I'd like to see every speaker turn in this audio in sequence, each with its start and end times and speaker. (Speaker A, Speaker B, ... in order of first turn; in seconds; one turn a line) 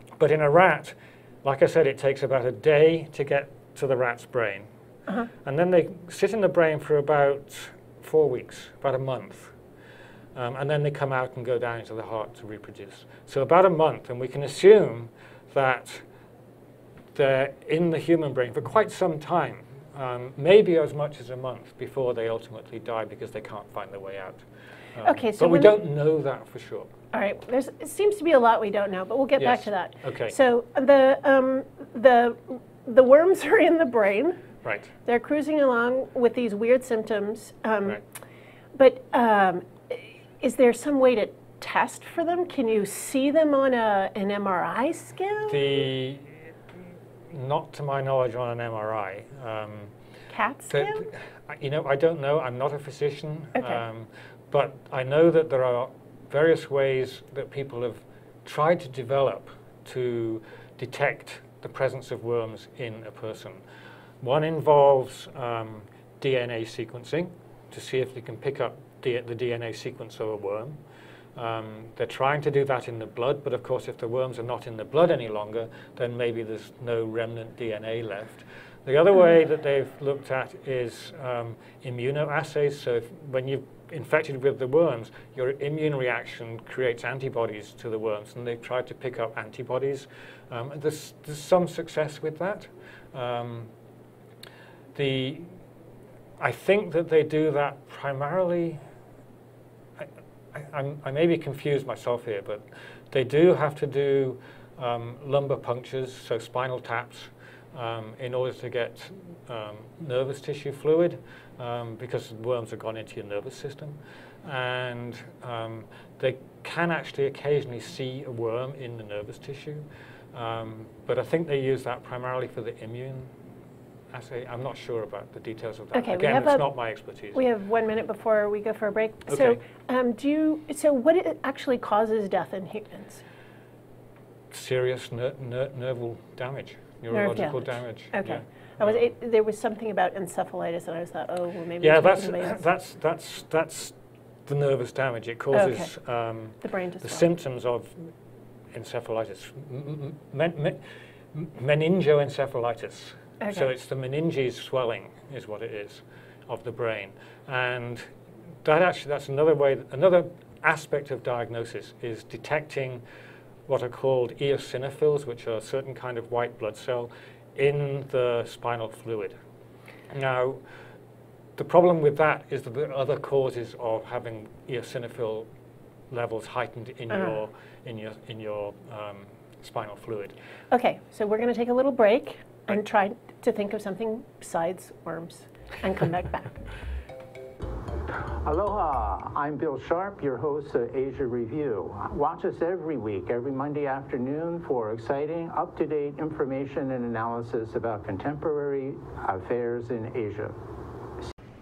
Speaker A: 0.2-4.7
Speaker A: 5.4-9.5
Speaker A: 10.3-16.0
Speaker A: 17.1-24.4
Speaker A: 24.9-26.9
Speaker B: 25.0-25.8
Speaker B: 27.1-34.4
Speaker A: 29.4-30.4
Speaker A: 34.6-34.9
Speaker B: 35.1-38.0
Speaker B: 38.8-45.8
Speaker A: 45.5-46.4
Speaker A: 47.3-49.9
Speaker B: 50.3-51.1
Speaker A: 50.7-63.6
Speaker A: 64.2-70.8
Speaker A: 71.4-93.7
Speaker A: 95.0-95.6
Speaker A: 96.4-98.8
Speaker A: 100.0-123.3
Speaker A: 124.1-127.4
Speaker B: 125.9-126.7
Speaker B: 127.3-133.2
Speaker A: 129.3-129.6
Speaker A: 134.5-139.1
Speaker B: 137.1-142.6
Speaker A: 141.8-148.1
Speaker B: 145.5-145.9
Speaker B: 146.6-147.3
Speaker A: 148.7-150.8
Speaker A: 151.3-158.1
Speaker B: 153.4-153.7
Speaker A: 158.6-163.0
Speaker A: 163.7-169.4
Speaker A: 170.1-170.6
Speaker A: 171.6-175.5
Speaker A: 176.1-180.3
Speaker B: 180.7-186.6
Speaker C: 188.1-200.6